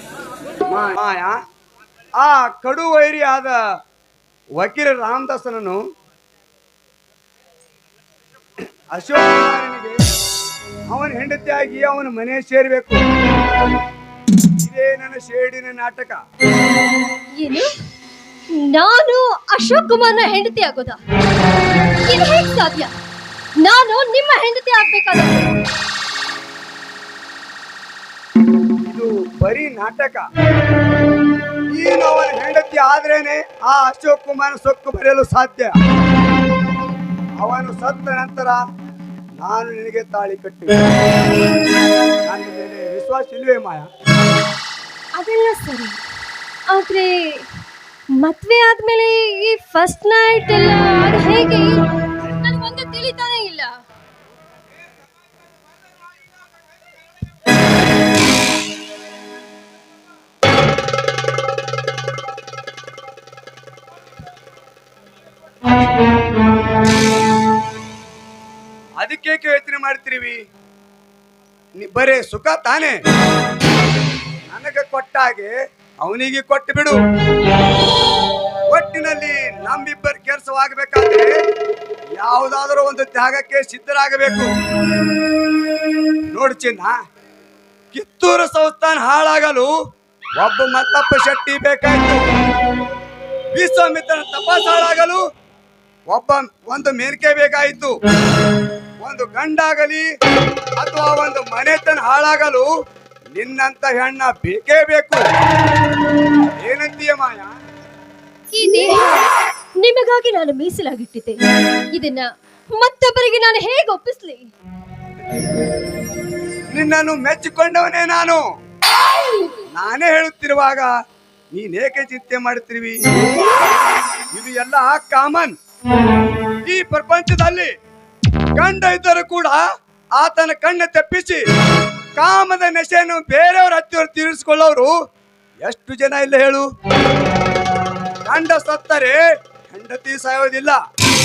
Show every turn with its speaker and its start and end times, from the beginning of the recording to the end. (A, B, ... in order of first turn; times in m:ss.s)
0:00.7-0:01.4 A
0:02.2-0:03.6 A
0:04.6-0:05.8 A
0:08.9-0:10.0 A
0:10.9-0:13.0 A
0:14.6-0:16.2 A
0:17.4-0:17.7 B
0:18.6-0:21.0 B
0:22.1-0:22.9 B
0:23.6-0:25.5 B
0:28.8-0:30.2 A
0:31.7-0:35.8 A
0:37.4-0:38.6 A
0:39.4-0:40.8 A
0:42.3-0:43.9 A
0:45.2-0:46.0 B
0:46.7-0:47.4 B
0:48.2-0:53.7 B
1:09.0-1:10.4 A
1:11.8-1:13.0 A
1:14.5-1:17.0 A
1:18.7-1:21.3 A
1:22.2-1:24.5 A
1:26.3-1:27.0 A
1:27.9-1:29.7 A
1:30.4-1:32.2 A
1:33.6-1:35.2 A
1:36.1-1:37.9 A
1:39.0-1:40.0 A
1:40.8-1:42.7 A
1:43.3-1:45.2 A
1:46.6-1:47.5 A
1:48.5-1:49.3 B
1:49.8-1:51.4 B
1:51.9-1:54.4 B
1:56.7-1:58.4 A
1:59.7-2:00.9 A
2:01.6-2:03.0 A
2:04.3-2:05.5 A
2:06.7-2:07.7 A
2:08.6-2:09.6 A
2:10.2-2:11.4 A
2:12.2-2:14.9 A
2:15.6-2:16.7 A
2:18.3-2:19.2 A
2:19.7-2:20.8 A